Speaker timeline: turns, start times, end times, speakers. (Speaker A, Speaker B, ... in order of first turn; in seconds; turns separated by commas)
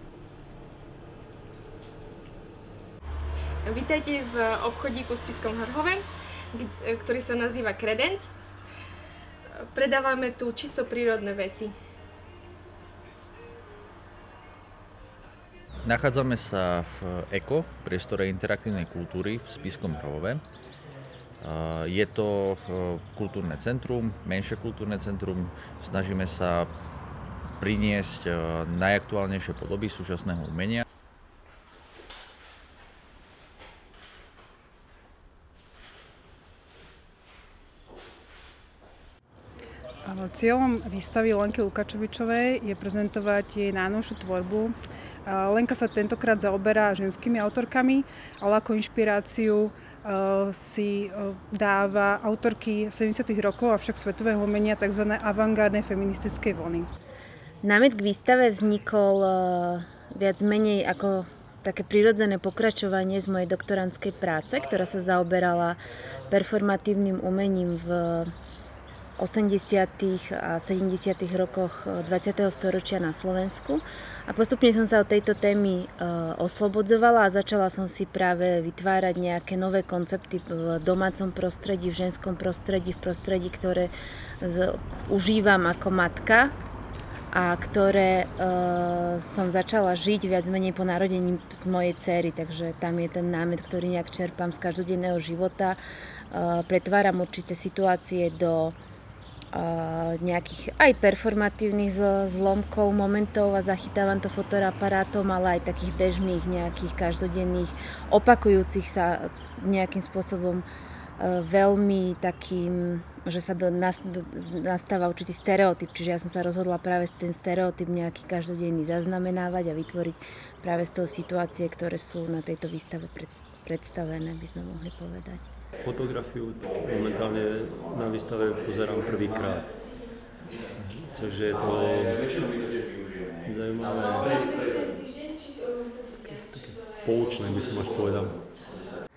Speaker A: 3.6-8.3, Speaker A: 9.6-11.7, Speaker B: 15.8-20.4, Speaker B: 21.4-26.7, Speaker B: 27.6-30.8, Speaker C: 40.0-44.7, Speaker C: 45.2-56.9, Speaker D: 57.6-65.8, Speaker D: 66.3-68.3, Speaker D: 69.2-83.9, Speaker D: 84.4-86.5, Speaker D: 87.3-95.8, Speaker D: 96.3-98.7, Speaker D: 99.5-110.6, Speaker D: 111.2-125.5, Speaker E: 125.8-129.7, Speaker B: 126.6-129.7, Speaker B: 130.5-134.8, Speaker E: 130.8-132.2, Speaker E: 133.4-134.4, Speaker A: 133.9-137.8, Speaker E: 136.5-138.4, Speaker B: 137.9-138.7